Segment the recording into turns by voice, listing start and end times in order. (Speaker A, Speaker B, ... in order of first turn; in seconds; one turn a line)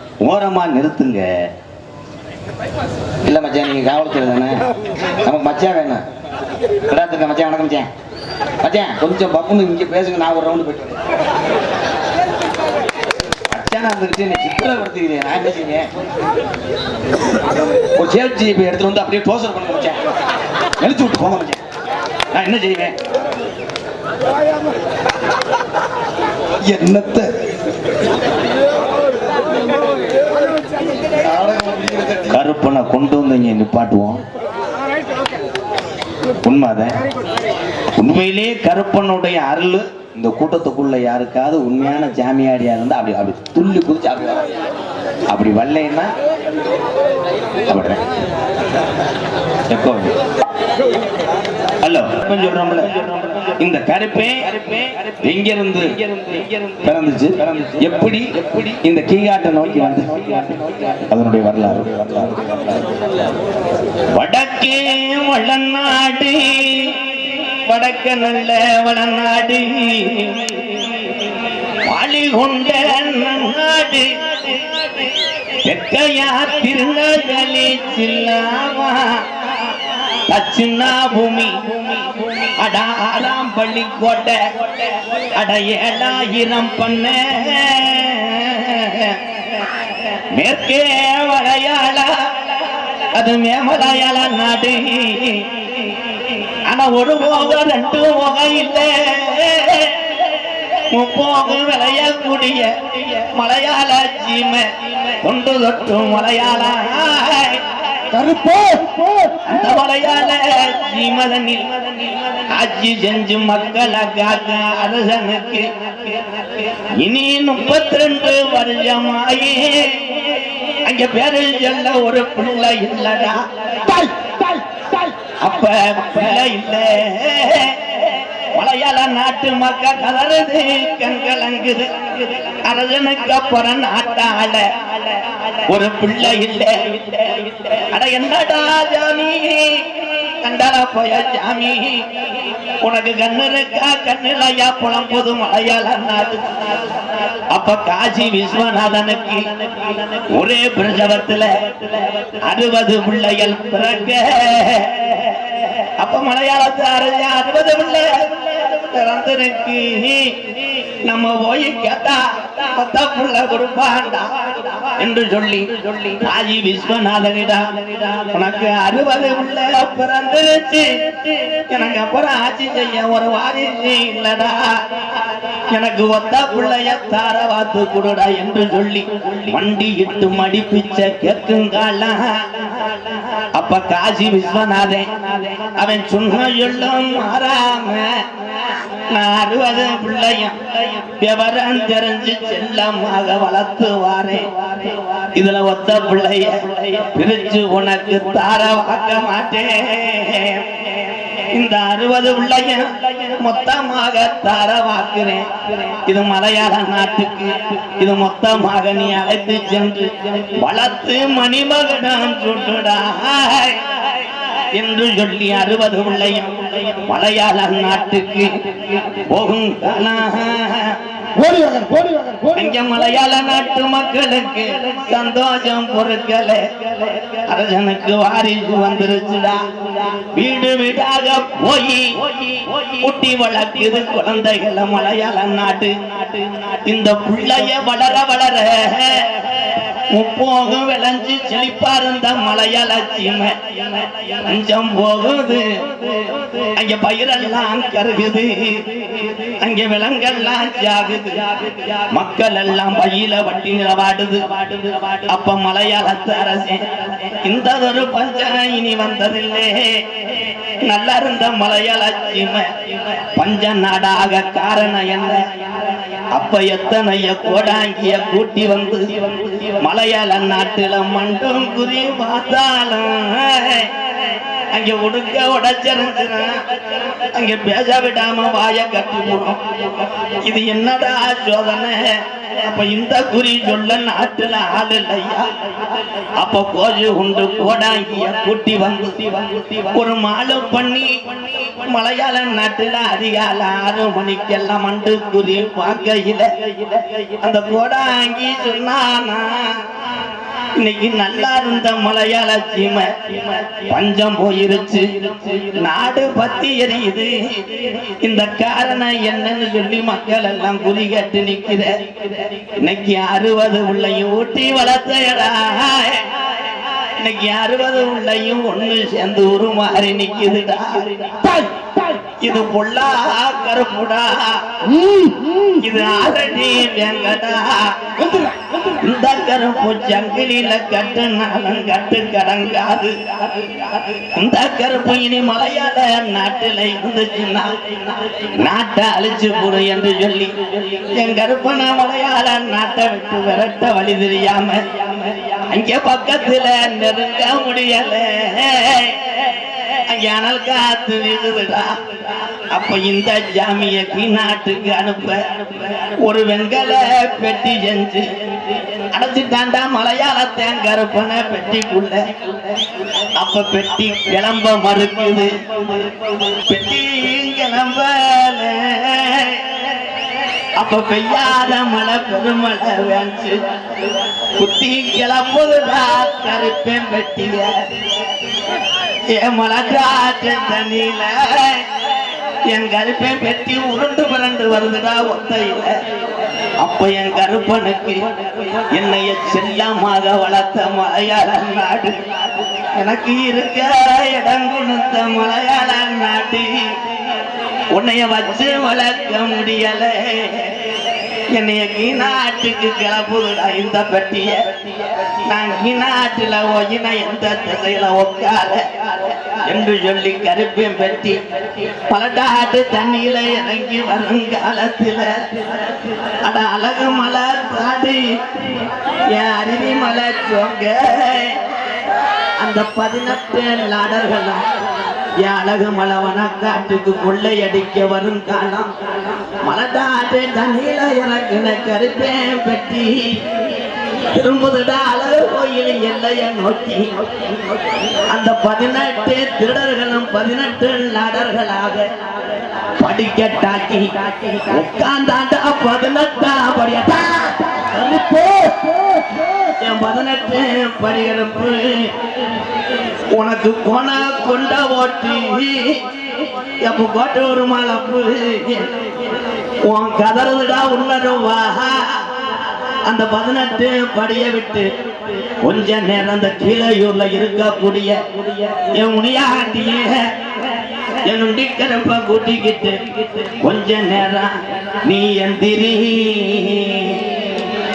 Speaker A: 0.2-1.5
Speaker A: 3.2-4.7
Speaker A: 5.2-6.0
Speaker A: 6.9-7.9
Speaker A: 8.6-11.0
Speaker A: 13.5-15.9
Speaker A: 18.0-20.0
Speaker A: 20.8-21.6
Speaker A: 22.3-23.0
Speaker B: 26.7-27.3
Speaker B: 31.1-32.4
Speaker A: 32.3-34.2
Speaker A: 36.4-37.0
Speaker A: 38.0-44.5
Speaker A: 45.3-46.1
Speaker A: 47.6-48.0
Speaker A: 49.7-50.2
Speaker A: 51.8-60.5
Speaker A: 61.1-62.9
Speaker A: 64.1-70.9
Speaker A: 71.8-75.1
Speaker A: 75.6-79.3
Speaker A: 80.3-89.6
Speaker A: 90.3-107.6
Speaker B: 108.1-109.4
Speaker A: 109.5-123.8
Speaker B: 123.8-125.1
Speaker A: 125.4-146.8
Speaker A: 147.5-221.0
Speaker B: 221.3-222.9
Speaker A: 222.6-265.5
Speaker A: 266.3-299.9
Speaker A: 300.8-316.6
Speaker A: 317.2-321.4
Speaker B: 321.4-322.2
Speaker A: 322.4-324.8
Speaker B: 324.9-325.8
Speaker A: 325.8-352.0
Speaker B: 328.2-328.7
Speaker A: 352.7-362.4
Speaker A: 363.2-370.1
Speaker A: 370.8-377.7
Speaker A: 379.3-382.1
Speaker A: 382.7-386.0
Speaker A: 386.8-397.0
Speaker A: 397.9-421.8
Speaker A: 422.6-424.7
Speaker A: 425.4-433.5
Speaker A: 434.3-442.1
Speaker A: 443.0-447.8
Speaker B: 447.9-449.6
Speaker A: 449.8-452.2
Speaker A: 453.3-456.0
Speaker A: 456.8-459.1
Speaker A: 459.8-462.3
Speaker A: 463.1-464.9
Speaker A: 465.6-470.4
Speaker A: 471.2-477.6